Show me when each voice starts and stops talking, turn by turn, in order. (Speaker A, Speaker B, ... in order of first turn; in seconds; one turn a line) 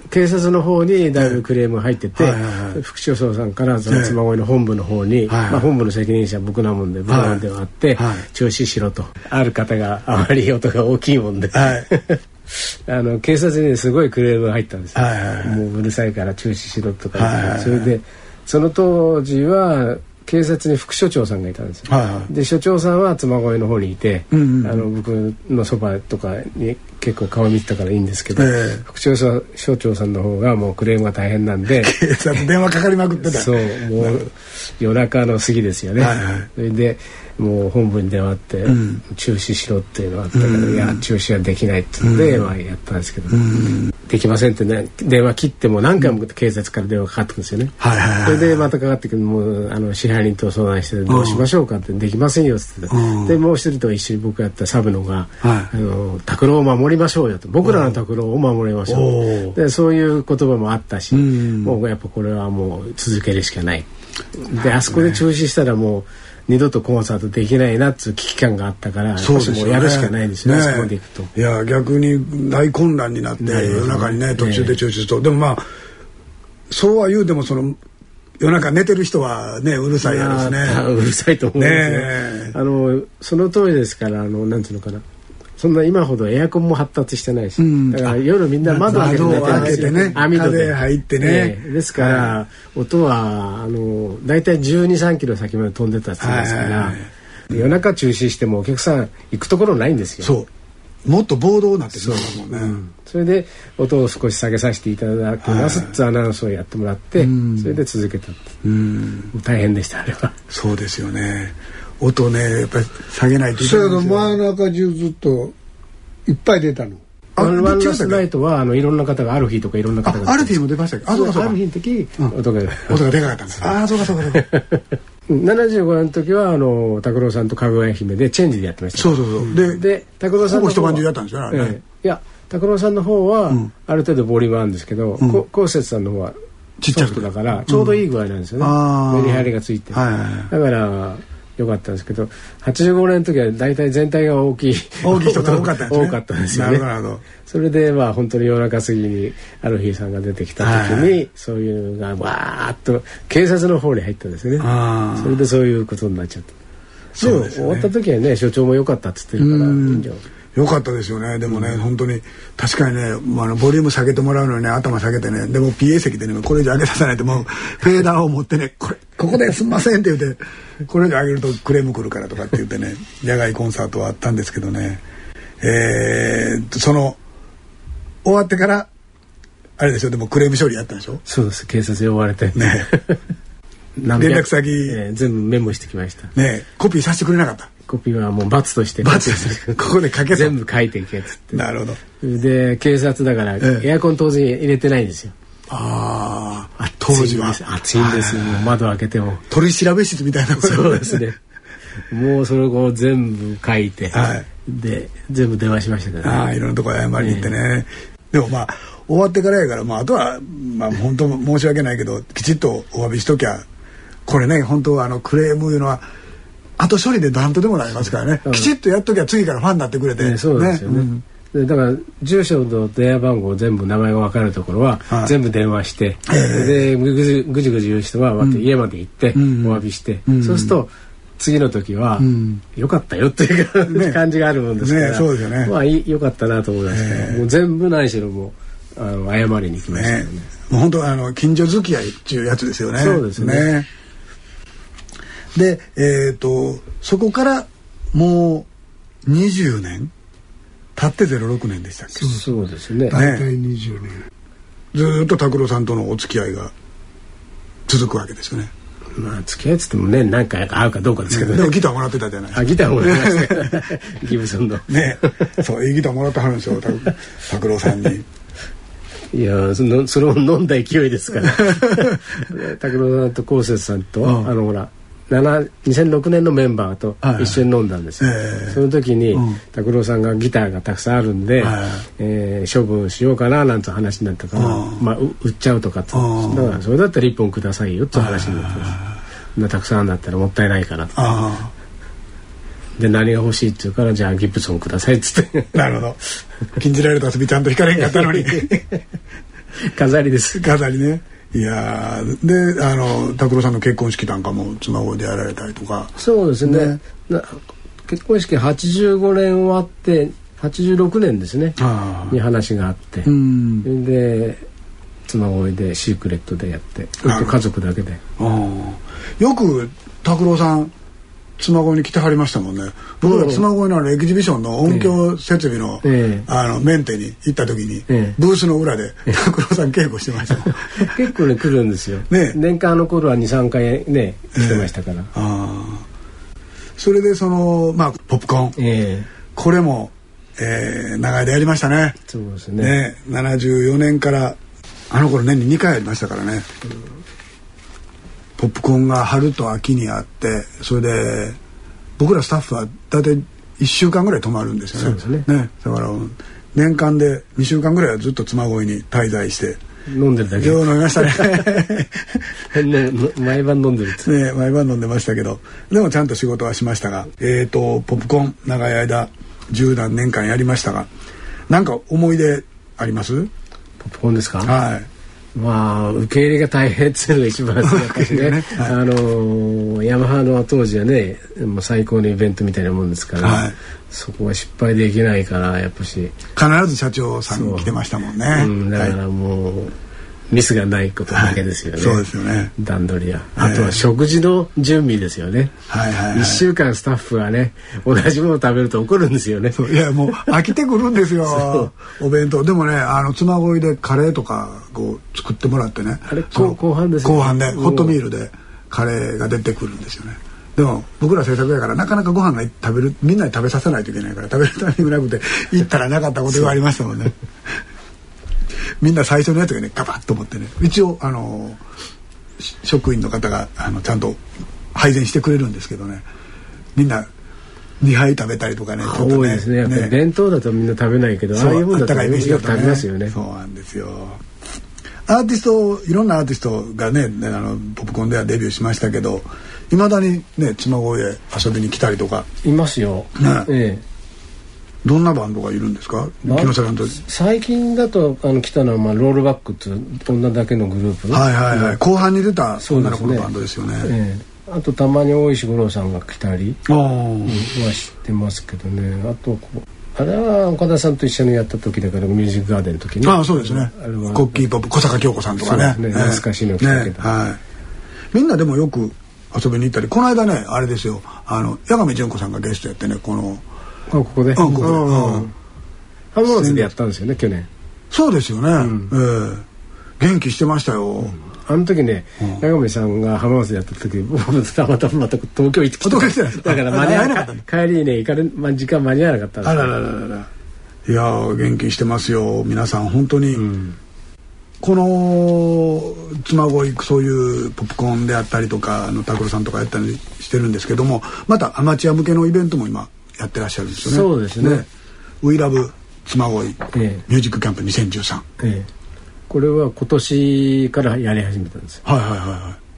Speaker A: 0.1-31.9
Speaker B: 2.2-2.8
Speaker B: 3.9-4.2
Speaker B: 5.3-5.7
Speaker B: 7.1-7.4
Speaker B: 8.0-8.3
Speaker B: 11.5-11.9
Speaker B: 14.9-15.6
Speaker B: 17.2-17.9
Speaker B: 21.9-22.3
Speaker B: 24.3-24.8
Speaker B: 28.4-28.8
Speaker B: 31.8-34.2
Speaker A: 33.2-63.9
Speaker B: 36.0-36.5
Speaker B: 38.7-39.0
Speaker B: 40.3-41.0
Speaker B: 42.0-42.5
Speaker B: 43.3-43.9
Speaker B: 47.8-48.7
Speaker B: 51.1-51.5
Speaker B: 52.9-53.4
Speaker B: 55.4-55.7
Speaker B: 57.6-58.0
Speaker B: 58.9-59.6
Speaker B: 61.1-61.8
Speaker A: 64.4-71.3
Speaker B: 64.6-65.2
Speaker B: 69.2-75.7
Speaker A: 73.4-74.8
Speaker B: 76.7-77.8
Speaker B: 78.4-80.8
Speaker A: 80.0-85.0
Speaker B: 81.6-82.5
Speaker A: 85.6-100.3
Speaker B: 87.6-92.4
Speaker B: 96.2-97.6
Speaker B: 100.2-100.5
Speaker B: 101.0-102.8
Speaker A: 102.0-108.5
Speaker B: 105.4-106.0
Speaker B: 107.2-107.8
Speaker B: 108.6-109.3
Speaker A: 109.3-110.4
Speaker B: 110.5-114.4
Speaker C: 113.6-115.5
Speaker C: 116.3-117.0
Speaker B: 117.4-118.2
Speaker A: 117.4-120.6
Speaker B: 120.0-121.6
Speaker A: 121.1-123.0
Speaker B: 122.9-124.5
Speaker A: 124.3-136.4
Speaker B: 129.0-129.8
Speaker B: 130.3-131.8
Speaker B: 136.8-138.0
Speaker A: 136.9-140.0
Speaker B: 138.6-140.5
Speaker A: 140.5-156.5
Speaker B: 145.0-147.2
Speaker B: 150.6-151.1
Speaker B: 154.6-155.4
Speaker B: 157.2-157.9
Speaker A: 157.2-160.2
Speaker B: 159.4-175.0
Speaker B: 175.6-177.2
Speaker B: 178.2-178.9
Speaker B: 179.8-181.2
Speaker A: 181.3-183.2
Speaker B: 182.5-182.9
Speaker A: 184.0-186.3
Speaker B: 184.2-185.0
Speaker B: 186.3-187.7
Speaker A: 187.9-191.7
Speaker B: 189.0-190.6
Speaker B: 191.5-192.0
Speaker A: 192.2-195.3
Speaker B: 195.7-198.8
Speaker A: 196.8-199.4
Speaker B: 199.5-201.2
Speaker A: 200.6-201.4
Speaker A: 202.1-206.4
Speaker B: 204.1-204.5
Speaker B: 206.2-213.7
Speaker A: 207.2-207.5
Speaker B: 214.3-216.1
Speaker B: 216.8-221.2
Speaker A: 220.2-240.5
Speaker B: 226.3-226.8
Speaker B: 229.3-230.8
Speaker B: 232.2-232.6
Speaker B: 233.9-234.2
Speaker B: 234.8-235.7
Speaker B: 236.9-237.4
Speaker B: 239.9-243.9
Speaker A: 243.0-243.7
Speaker B: 245.5-248.7
Speaker B: 249.2-250.1
Speaker B: 251.0-252.4
Speaker A: 252.2-253.2
Speaker C: 253.1-254.2
Speaker B: 253.1-253.5
Speaker B: 254.9-256.7
Speaker B: 257.9-258.7
Speaker A: 259.2-261.8
Speaker B: 261.3-263.9
Speaker A: 262.5-265.6
Speaker B: 264.9-268.2
Speaker A: 269.3-289.0
Speaker B: 271.6-272.2
Speaker B: 274.2-274.5
Speaker B: 277.2-277.6
Speaker B: 278.2-278.8
Speaker B: 279.3-279.6
Speaker B: 281.6-282.0
Speaker B: 284.6-285.0
Speaker B: 286.1-286.8
Speaker B: 288.1-289.2
Speaker A: 289.6-291.1
Speaker B: 291.1-291.7
Speaker A: 293.0-295.8
Speaker B: 295.7-296.2
Speaker B: 296.7-298.9
Speaker A: 298.0-299.0
Speaker A: 299.8-300.7
Speaker B: 300.6-307.0
Speaker A: 306.2-313.3
Speaker B: 311.8-312.4
Speaker B: 313.3-313.9
Speaker A: 313.8-314.7
Speaker A: 315.3-318.2
Speaker B: 317.2-317.6
Speaker B: 318.4-320.9
Speaker B: 321.6-331.3
Speaker A: 323.2-323.6
Speaker A: 324.9-325.1
Speaker A: 326.0-326.5
Speaker A: 328.1-328.4
Speaker A: 330.7-335.3
Speaker B: 332.3-332.6
Speaker B: 334.6-336.1
Speaker B: 337.0-338.8
Speaker A: 338.8-339.3
Speaker B: 339.5-342.2
Speaker A: 342.3-343.0
Speaker B: 342.8-344.6
Speaker B: 345.1-346.7
Speaker B: 348.6-351.6
Speaker B: 352.2-359.8
Speaker A: 354.9-355.5
Speaker A: 360.1-361.7
Speaker B: 360.6-362.5
Speaker A: 362.7-364.3
Speaker B: 364.2-371.1
Speaker B: 371.7-373.5
Speaker A: 374.0-374.7
Speaker B: 374.6-375.1
Speaker A: 375.6-386.4
Speaker B: 377.8-379.0
Speaker B: 383.4-383.8
Speaker B: 386.6-389.2
Speaker A: 387.5-387.9
Speaker A: 388.5-389.9
Speaker A: 390.5-392.3
Speaker B: 391.3-392.7
Speaker A: 392.8-395.8
Speaker B: 393.6-394.0
Speaker B: 395.9-396.6
Speaker A: 396.3-400.5
Speaker B: 399.8-417.8
Speaker A: 401.4-401.9
Speaker A: 406.3-408.2
Speaker B: 419.0-421.8
Speaker B: 422.6-424.4
Speaker B: 424.9-426.3
Speaker B: 426.9-427.3
Speaker B: 428.0-430.1
Speaker A: 429.0-433.4
Speaker B: 431.6-434.4
Speaker B: 435.3-442.5
Speaker A: 442.6-444.0
Speaker B: 443.4-443.7
Speaker B: 445.0-447.2
Speaker A: 446.4-452.0
Speaker B: 451.3-454.1
Speaker A: 452.8-453.5
Speaker A: 454.0-456.8
Speaker B: 456.9-457.7
Speaker A: 457.4-464.7
Speaker B: 463.2-467.6
Speaker A: 465.6-467.3
Speaker B: 468.3-473.6
Speaker A: 474.1-475.5
Speaker B: 474.6-475.5
Speaker A: 476.3-477.7
Speaker B: 476.5-476.9
Speaker B: 478.1-479.6
Speaker A: 478.8-479.1
Speaker B: 480.2-481.4
Speaker A: 481.4-490.0
Speaker B: 486.0-487.6
Speaker B: 489.6-490.5
Speaker B: 491.1-493.7
Speaker A: 493.6-494.0
Speaker B: 494.8-504.9
Speaker A: 504.0-504.9
Speaker B: 505.4-508.4
Speaker A: 506.9-507.2
Speaker A: 508.6-508.9
Speaker A: 509.5-512.0
Speaker B: 512.0-512.8